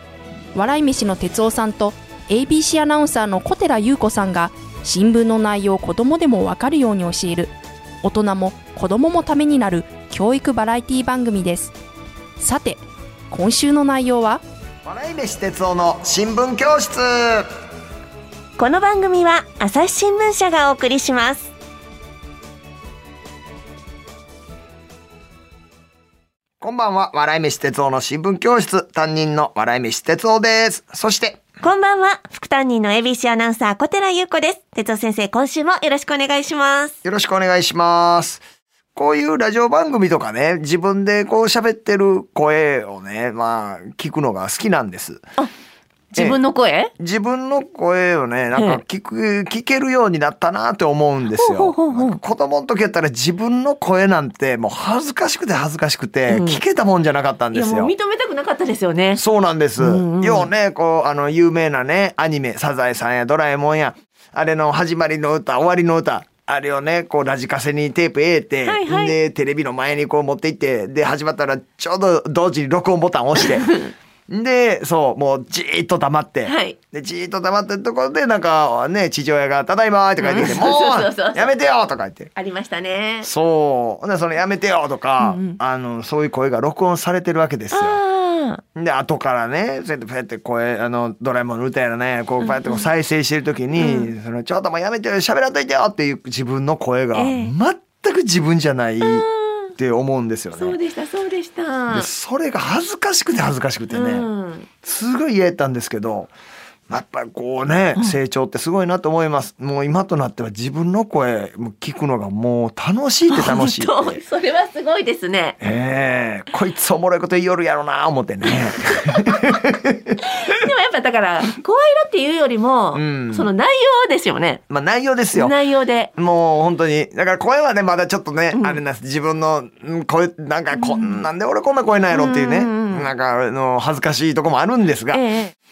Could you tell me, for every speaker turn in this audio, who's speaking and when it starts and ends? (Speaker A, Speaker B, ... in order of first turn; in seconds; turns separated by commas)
Speaker A: 0.6-7.5, Speaker A: 8.0-11.7, Speaker A: 12.4-12.8, Speaker A: 13.3-14.4, Speaker B: 14.8-17.5, Speaker C: 18.6-21.5, Speaker B: 26.6-31.4, Speaker C: 31.6-37.0, Speaker B: 37.0-38.4, Speaker B: 39.0-45.2, Speaker C: 46.1-46.9, Speaker B: 47.0-57.9, Speaker C: 48.5-48.8, Speaker C: 51.4-52.2, Speaker C: 56.3-56.6, Speaker C: 57.5-59.2, Speaker B: 59.2-73.7, Speaker C: 59.8-60.5, Speaker C: 68.7-69.2, Speaker B: 74.3-82.3, Speaker C: 76.5-76.8, Speaker C: 80.2-81.5, Speaker C: 82.3-83.3, Speaker B: 83.2-88.0, Speaker C: 85.2-85.6, Speaker C: 87.7-88.6, Speaker B: 88.8-100.8, Speaker C: 92.4-92.9, Speaker C: 93.8-94.1, Speaker C: 97.1-97.5, Speaker C: 99.0-99.7, Speaker C: 100.5-102.1, Speaker B: 101.9-104.3, Speaker C: 103.9-104.7, Speaker B: 104.8-106.3, Speaker B: 106.9-114.2, Speaker C: 113.3-115.6, Speaker B: 115.6-120.2, Speaker C: 119.0-119.5, Speaker C: 120.2-124.6, Speaker B: 122.9-123.5, Speaker B: 124.7-125.5, Speaker C: 125.3-126.1, Speaker B: 126.2-135.2, Speaker C: 128.5-128.8, Speaker C: 130.8-131.2, Speaker C: 132.1-133.1, Speaker C: 135.1-135.6